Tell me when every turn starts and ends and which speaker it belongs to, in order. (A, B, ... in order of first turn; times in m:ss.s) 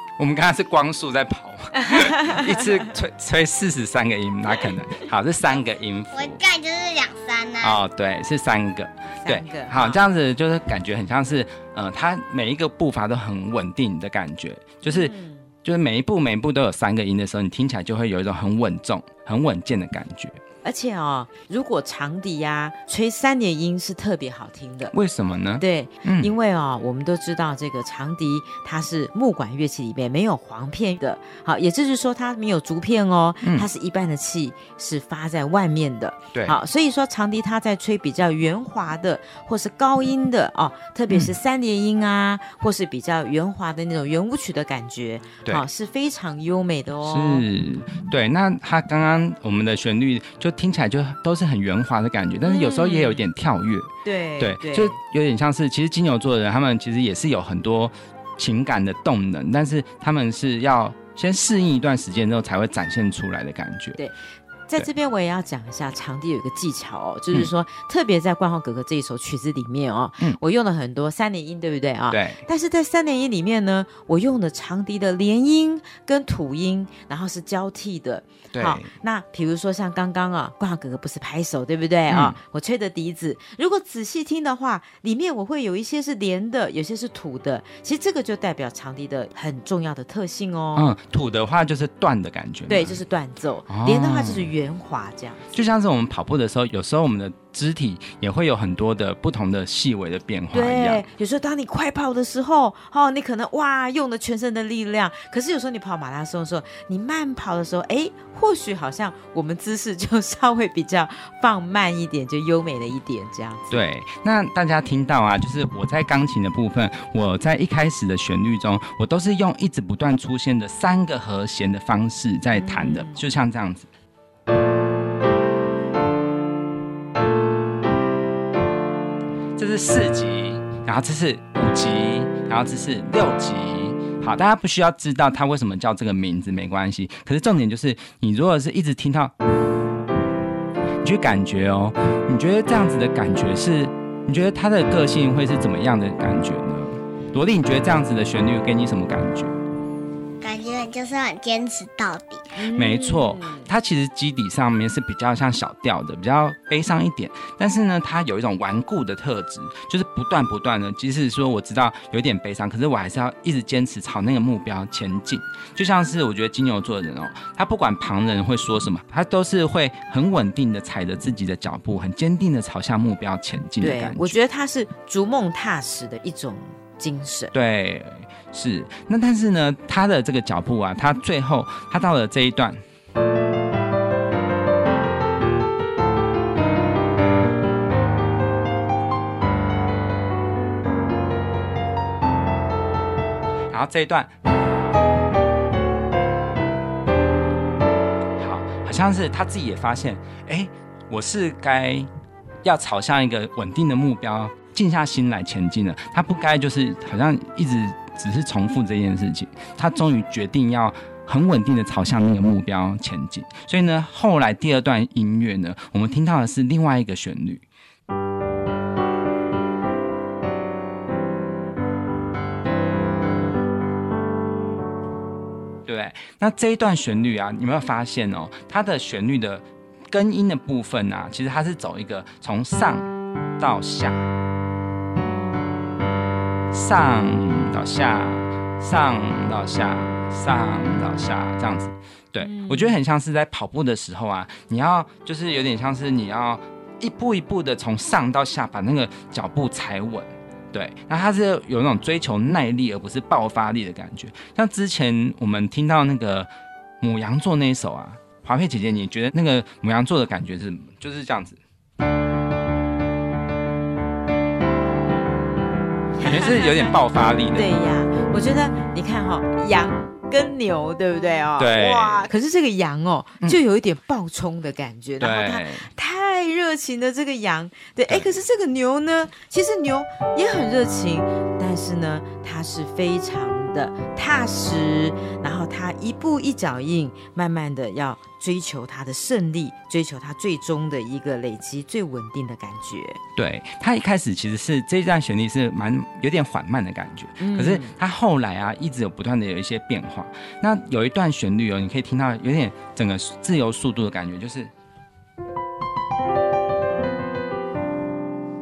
0:00.2-0:06.4 A
0:06.1-0:07.8 B
0:07.6-0:15.1 A
0:09.2-0:10.0 C
0:14.9-0:15.5 C
0:15.6-0:20.4 A
0:20.6-0:24.9 C
0:24.9-0:26.3 A
0:25.6-0:47.4 C
0:33.4-0:33.7 A
0:47.0-1:04.0 A
0:52.4-0:53.3 C
0:54.0-0:55.0 C
1:04.7-1:30.9 C
1:12.1-1:12.4 A
1:18.5-1:18.9 A
1:22.1-1:22.4 A
1:30.8-1:33.0 A
1:32.7-1:35.5 C
1:33.7-1:34.5 A
1:35.5-1:41.1 A
1:40.5-1:53.8 C
1:53.7-2:03.9 A
2:02.6-2:03.2 C
2:09.6-2:19.3 A
2:21.0-2:29.6 A
2:30.4-2:32.5 B
2:32.6-2:33.7 C
2:32.7-2:54.4 A
2:53.8-2:57.5 C
2:57.5-3:02.8 A
3:13.7-3:14.3 A
3:18.4-3:22.1 A
3:22.6-3:37.6 A
3:45.9-3:54.3 A
3:56.7-4:21.6 A
4:02.4-4:03.0 C
4:26.2-4:26.9 C
4:26.2-4:27.7 A
4:27.5-4:53.2 C
4:31.6-4:32.3 A
4:35.2-4:35.9 A
4:53.4-5:04.7 A
4:57.4-4:57.9 C